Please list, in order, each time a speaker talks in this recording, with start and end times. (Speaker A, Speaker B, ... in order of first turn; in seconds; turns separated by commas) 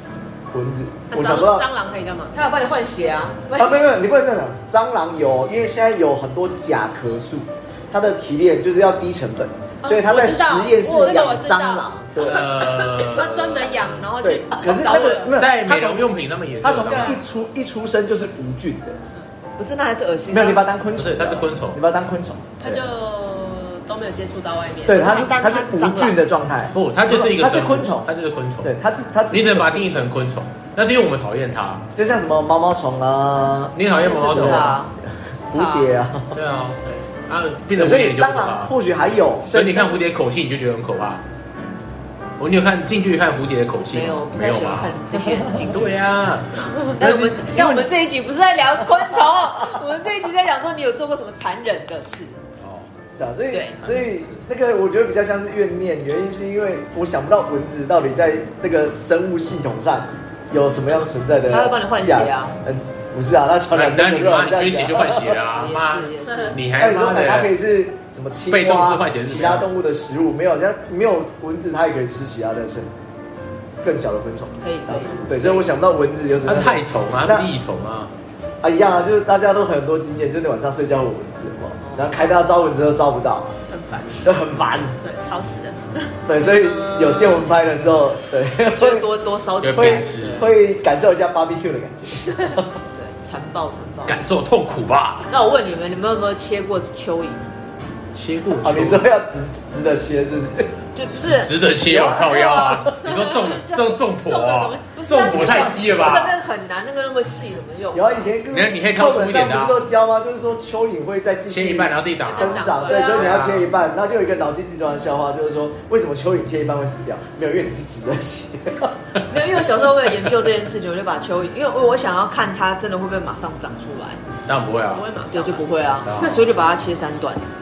Speaker A: 0.5-1.6, Speaker B: 1.1-2.3, Speaker C: 2.3-4.0, Speaker A: 3.6-12.6, Speaker B: 9.8-11.9, Speaker C: 10.9-11.3, Speaker D: 12.2-13.9, Speaker B: 12.8-15.4, Speaker A: 14.2-16.1, Speaker D: 15.3-17.2, Speaker A: 16.6-19.0, Speaker B: 16.9-17.2, Speaker C: 19.6-20.6, Speaker A: 20.3-22.8, Speaker D: 20.9-21.8, Speaker B: 22.6-25.2, Speaker A: 24.9-28.1, Speaker C: 24.9-26.2, Speaker D: 26.7-28.7, Speaker A: 28.6-30.1, Speaker D: 29.3-31.8, Speaker A: 31.9-33.8, Speaker D: 33.7-34.8, Speaker C: 33.9-34.9, Speaker A: 34.3-34.7, Speaker A: 35.5-36.4, Speaker C: 35.5-35.9, Speaker D: 36.3-38.7, Speaker A: 37.7-40.0, Speaker D: 39.5-41.2, Speaker D: 42.4-47.9, Speaker C: 43.9-46.0, Speaker C: 47.0-52.4, Speaker D: 52.6-52.9, Speaker A: 53.2-65.4, Speaker D: 53.8-54.4, Speaker C: 61.5-62.6, Speaker D: 63.7-67.5, Speaker C: 65.5-66.6, Speaker B: 66.2-66.5, Speaker A: 66.8-72.9, Speaker D: 68.5-69.7, Speaker A: 73.8-77.5, Speaker C: 74.6-75.7, Speaker D: 76.5-78.1, Speaker A: 78.6-83.5, Speaker C: 81.8-82.2, Speaker B: 83.7-84.3, Speaker A: 84.2-85.0, Speaker B: 85.0-86.1, Speaker A: 86.3-89.1, Speaker C: 86.6-87.5, Speaker C: 88.8-90.5, Speaker D: 89.6-90.5, Speaker A: 89.7-92.7, Speaker C: 92.9-94.2, Speaker D: 94.0-95.3, Speaker C: 95.3-97.4, Speaker D: 98.1-99.1, Speaker A: 98.6-100.8, Speaker C: 100.9-101.5, Speaker D: 101.2-106.4, Speaker A: 101.8-103.1, Speaker B: 103.1-103.5, Speaker C: 103.5-103.8, Speaker B: 104.1-105.0, Speaker C: 104.9-108.3, Speaker A: 107.9-118.9, Speaker D: 108.5-109.9, Speaker D: 111.5-113.7, Speaker B: 112.3-113.4, Speaker C: 113.0-113.3, Speaker C: 119.3-124.2, Speaker D: 124.5-125.1, Speaker B: 124.9-125.7, Speaker C: 125.3-127.4, Speaker D: 126.0-126.5